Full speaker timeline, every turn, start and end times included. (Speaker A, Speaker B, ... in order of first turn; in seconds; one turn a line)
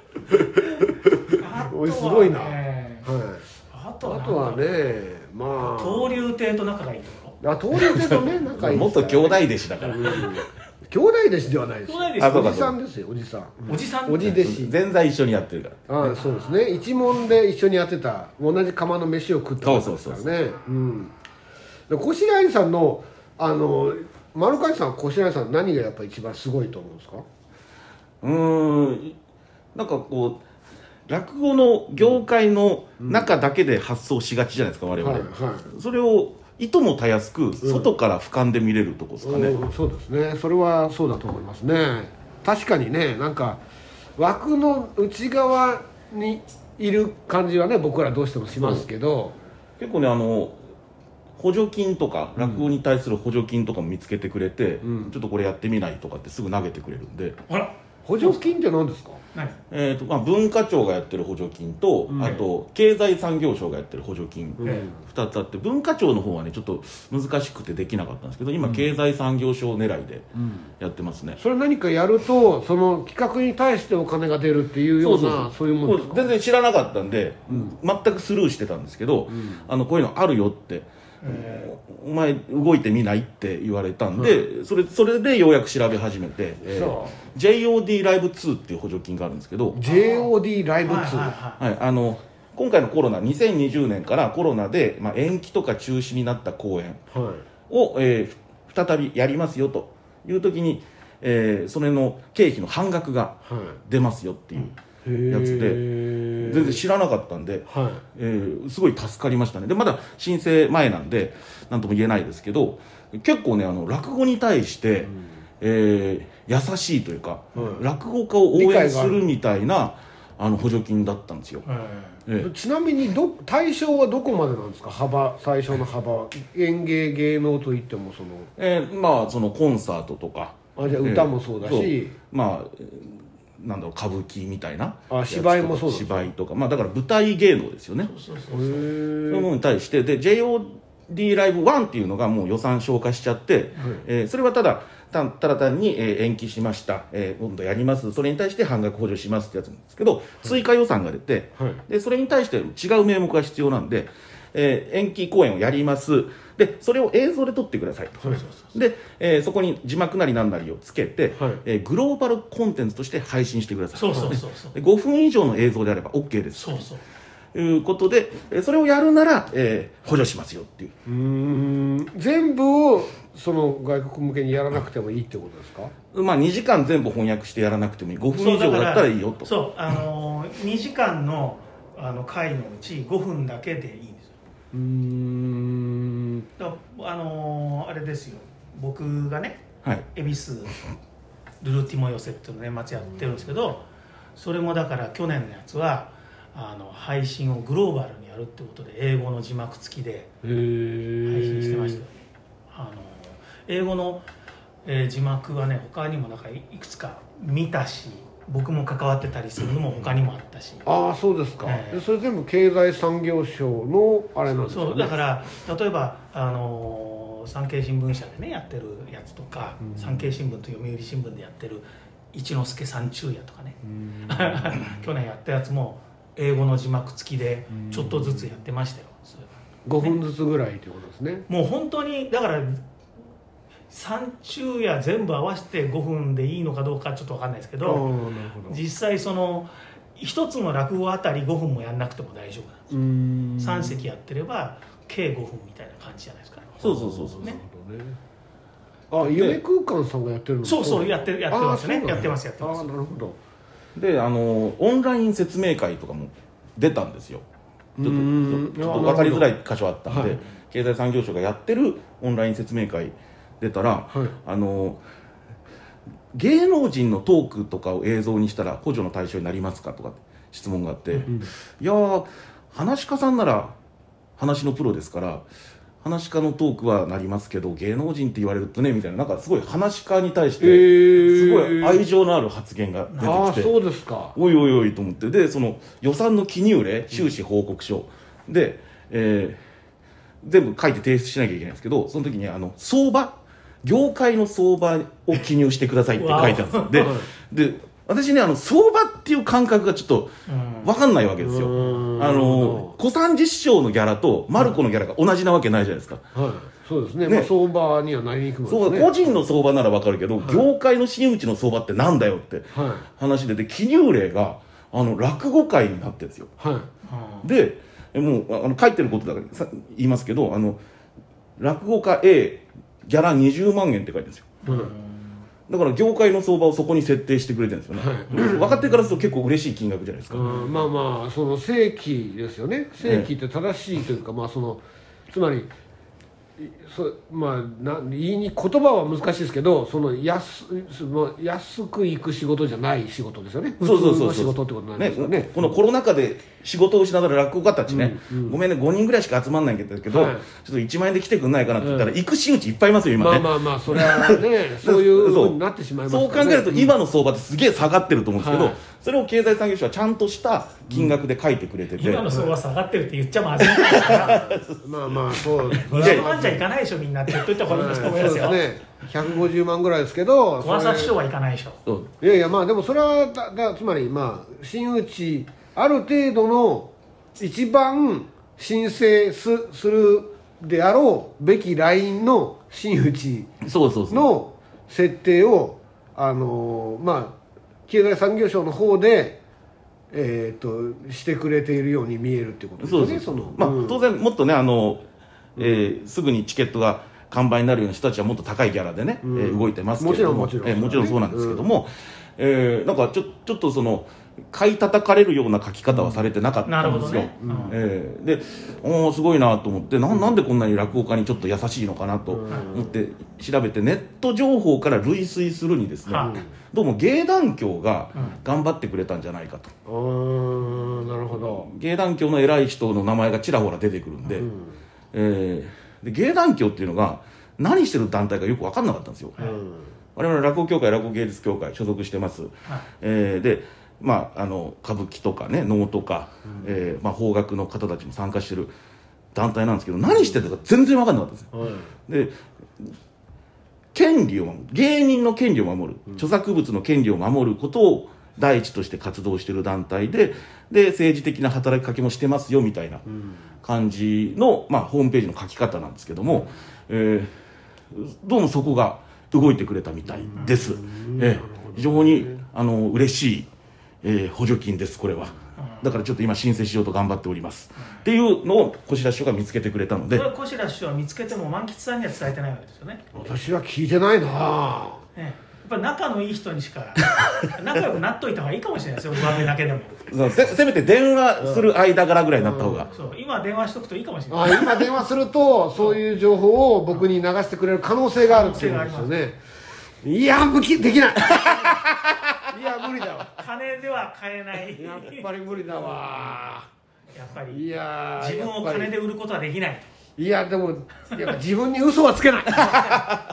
Speaker A: 0.3-3.4
Speaker B: 1.4-3.1
Speaker B: 3.7-5.0
Speaker A: 4.0-6.1
Speaker B: 5.6-7.4
Speaker A: 7.4-14.8
Speaker C: 7.8-10.5
Speaker B: 11.9-12.6
Speaker C: 12.2-12.7
Speaker B: 13.7-14.3
Speaker C: 14.2-15.9
Speaker A: 15.9-21.1
Speaker B: 16.1-16.6
Speaker C: 19.6-20.3
Speaker A: 21.9-27.3
Speaker C: 28.2-29.2
Speaker C: 29.8-30.4
Speaker C: 31.1-39.6
Speaker A: 33.0-33.3
Speaker A: 35.0-35.7
Speaker A: 37.6-37.9
Speaker A: 39.2-43.6
Speaker A: 44.2-49.4
Speaker C: 49.8-50.6
Speaker C: 51.4-57.4
Speaker A: 52.4-52.7
Speaker A: 54.8-55.1
Speaker B: 57.5-58.4
Speaker A: 58.0-59.2
Speaker C: 59.7-70.3
Speaker A: 62.1-62.4
Speaker A: 64.6-65.0
Speaker B: 64.6-64.9
Speaker A: 68.6-68.9
Speaker A: 70.4-70.7
Speaker C: 70.8-71.4
Speaker A: 71.4-76.3
Speaker C: 75.0-89.8
Speaker A: 79.3-79.7
Speaker B: 81.2-81.7
Speaker A: 84.2-84.5
Speaker A: 86.6-87.2
Speaker A: 89.7-91.3
Speaker B: 89.8-90.3
Speaker B: 90.8-91.6
Speaker C: 91.6-97.0
Speaker A: 97.1-97.4
Speaker C: 97.7-104.8
Speaker A: 103.5-103.8
Speaker A: 105.0-106.8
Speaker C: 105.3-121.7
Speaker A: 107.7-108.0
Speaker A: 117.6-117.8
Speaker A: 118.5-119.2
Speaker B: 121.7-122.2
Speaker A: 122.4-128.5
Speaker C: 128.6-138.1
Speaker A: 130.8-132.2
Speaker A: 135.1-136.3
Speaker B: 138.0-138.9
Speaker A: 138.5-139.5
Speaker C: 139.3-166.9
Speaker A: 143.8-144.0
Speaker B: 158.3-158.7
Speaker A: 161.4-161.6
Speaker B: 163.9-164.8
Speaker B: 166.6-167.0
Speaker C: 167.5-170.9
Speaker A: 171.1-175.9
Speaker C: 176.1-179.5
Speaker B: 178.4-184.3
Speaker A: 184.7-186.5
Speaker B: 186.6-190.8
Speaker B: 191.6-193.8
Speaker B: 194.4-200.3
Speaker A: 200.4-202.0
Speaker B: 201.2-202.1
Speaker B: 202.7-204.3
Speaker B: 204.8-210.9
Speaker A: 210.8-215.2
Speaker B: 211.6-212.1
Speaker B: 214.7-229.5
Speaker A: 224.0-224.8
Speaker A: 227.9-228.5
Speaker A: 229.9-231.5
Speaker B: 231.5-232.8
Speaker B: 233.9-238.1
Speaker A: 237.8-238.8
Speaker B: 238.7-242.9
Speaker A: 242.9-244.1
Speaker B: 243.6-247.6
Speaker C: 246.8-247.5
Speaker A: 246.8-248.2
Speaker A: 249.1-253.4
Speaker C: 249.2-249.6
Speaker B: 250.6-252.9
Speaker C: 254.0-257.4
Speaker A: 258.0-259.5
Speaker C: 258.0-265.0
Speaker A: 260.1-260.4
Speaker C: 266.3-273.8
Speaker C: 274.4-275.4
Speaker C: 276.0-283.7
Speaker A: 280.6-282.0
Speaker B: 283.1-283.5
Speaker A: 283.2-284.4
Speaker C: 284.4-289.6
Speaker C: 290.4-306.2
Speaker B: 296.2-297.1
Speaker A: 297.0-297.3
Speaker B: 300.5-300.9
Speaker A: 301.4-302.9
Speaker A: 306.4-309.1
Speaker C: 308.7-316.5
Speaker A: 310.4-310.7
Speaker A: 312.7-313.1
Speaker A: 316.6-316.9
Speaker B: 317.1-317.5
Speaker C: 317.4-320.8
Speaker C: 321.6-324.6
Speaker B: 324.6-325.3
Speaker A: 324.7-324.9
Speaker C: 325.7-330.6
Speaker A: 328.0-328.8
Speaker A: 330.3-335.7
Speaker C: 333.0-333.3
Speaker A: 336.6-345.7
Speaker C: 343.8-362.3
Speaker A: 347.9-348.6
Speaker A: 350.1-350.5
Speaker A: 351.8-352.2
Speaker A: 353.2-356.9
Speaker A: 358.4-358.8
Speaker A: 360.9-361.2
Speaker B: 362.0-364.5
Speaker A: 362.3-362.5
Speaker C: 363.7-366.3
Speaker A: 364.0-366.6
Speaker B: 365.9-368.6
Speaker A: 367.7-371.1
Speaker B: 370.6-371.8
Speaker A: 372.2-383.5
Speaker C: 383.6-384.3
Speaker A: 384.1-389.4
Speaker A: 390.1-394.1
Speaker C: 392.8-395.1
Speaker C: 395.6-419.7
Speaker A: 395.6-395.8
Speaker A: 399.2-401.7
Speaker A: 405.9-406.2
Speaker B: 406.7-407.8
Speaker A: 406.8-407.8
Speaker A: 412.3-412.9
Speaker B: 412.5-412.8
Speaker B: 416.1-416.4
Speaker A: 416.2-416.5
Speaker A: 419.9-421.7
Speaker C: 421.4-424.5
Speaker A: 424.4-424.8
Speaker C: 425.1-429.4
Speaker A: 429.4-429.9
Speaker C: 430.2-438.7
Speaker C: 439.3-441.5
Speaker A: 441.5-441.9
Speaker C: 442.1-442.9
Speaker C: 443.9-453.1
Speaker C: 453.6-457.3
Speaker C: 457.9-463.5
Speaker A: 460.3-462.4
Speaker B: 460.4-460.6
Speaker C: 464.0-470.3
Speaker B: 465.6-465.9
Speaker B: 470.1-473.0
Speaker A: 473.1-475.0
Speaker B: 475.2-480.0
Speaker C: 480.1-482.9
Speaker A: 481.4-481.7
Speaker A: 482.4-482.9
Speaker B: 482.9-484.9
Speaker A: 484.3-489.4
Speaker B: 488.2-489.2
Speaker A: 490.0-491.9
Speaker C: 491.4-491.9
Speaker A: 492.5-493.4
Speaker B: 493.4-495.3
Speaker A: 494.8-496.7
Speaker B: 497.1-499.9
Speaker A: 497.5-498.9
Speaker A: 500.2-503.0
Speaker B: 502.6-503.0